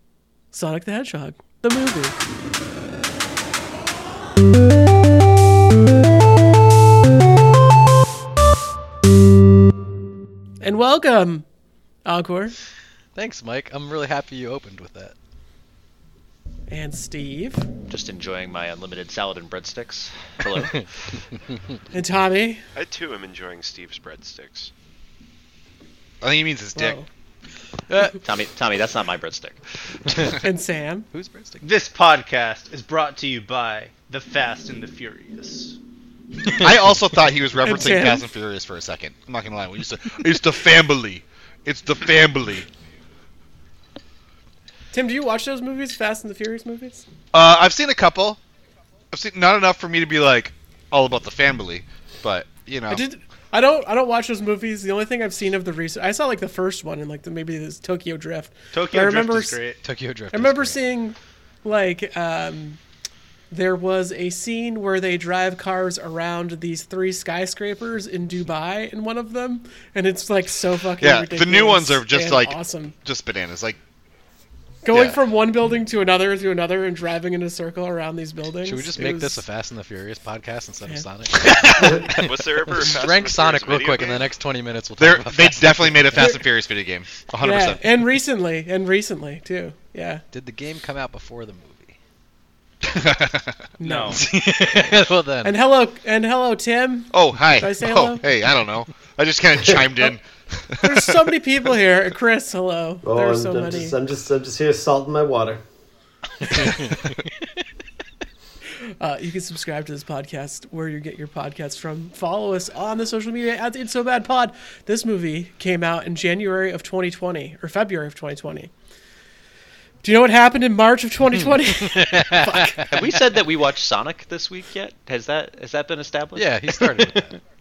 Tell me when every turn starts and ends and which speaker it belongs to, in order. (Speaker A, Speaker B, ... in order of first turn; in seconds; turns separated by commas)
Speaker A: 0.5-2.2, Speaker A: 10.6-11.4, Speaker A: 12.1-12.6, Speaker B: 13.1-15.1, Speaker A: 16.7-17.6, Speaker C: 17.9-21.2, Speaker B: 21.5-21.8, Speaker A: 21.9-22.6, Speaker D: 22.8-24.7, Speaker E: 26.2-27.0, Speaker A: 26.8-27.1, Speaker B: 27.9-28.2, Speaker C: 28.2-30.3, Speaker B: 30.0-30.4, Speaker A: 30.4-31.1, Speaker B: 31.1-31.6, Speaker F: 31.6-35.8, Speaker B: 36.5-36.7, Speaker E: 36.5-42.7, Speaker A: 37.6-38.3, Speaker A: 44.9-47.0, Speaker E: 47.3-48.4, Speaker E: 49.1-53.0, Speaker A: 52.9-59.6, Speaker F: 58.7-59.8, Speaker B: 59.8-60.8, Speaker A: 60.3-62.8, Speaker A: 63.5-73.0, Speaker E: 71.0-73.8, Speaker A: 74.8-79.4, Speaker E: 74.9-75.2, Speaker B: 78.6-86.4, Speaker E: 81.5-81.9, Speaker D: 81.9-84.3, Speaker E: 85.0-87.8, Speaker A: 87.4-90.2, Speaker B: 90.3-92.0, Speaker E: 92.8-93.7, Speaker A: 93.8-94.2, Speaker F: 93.8-94.2, Speaker B: 94.1-95.5, Speaker A: 95.4-98.2, Speaker E: 97.1-101.2, Speaker G: 99.6-100.1, Speaker A: 100.8-104.0, Speaker G: 103.0-105.6, Speaker B: 106.4-107.2, Speaker A: 109.0-118.7, Speaker A: 120.0-122.8, Speaker B: 121.4-122.9, Speaker C: 122.9-127.1, Speaker B: 126.3-127.4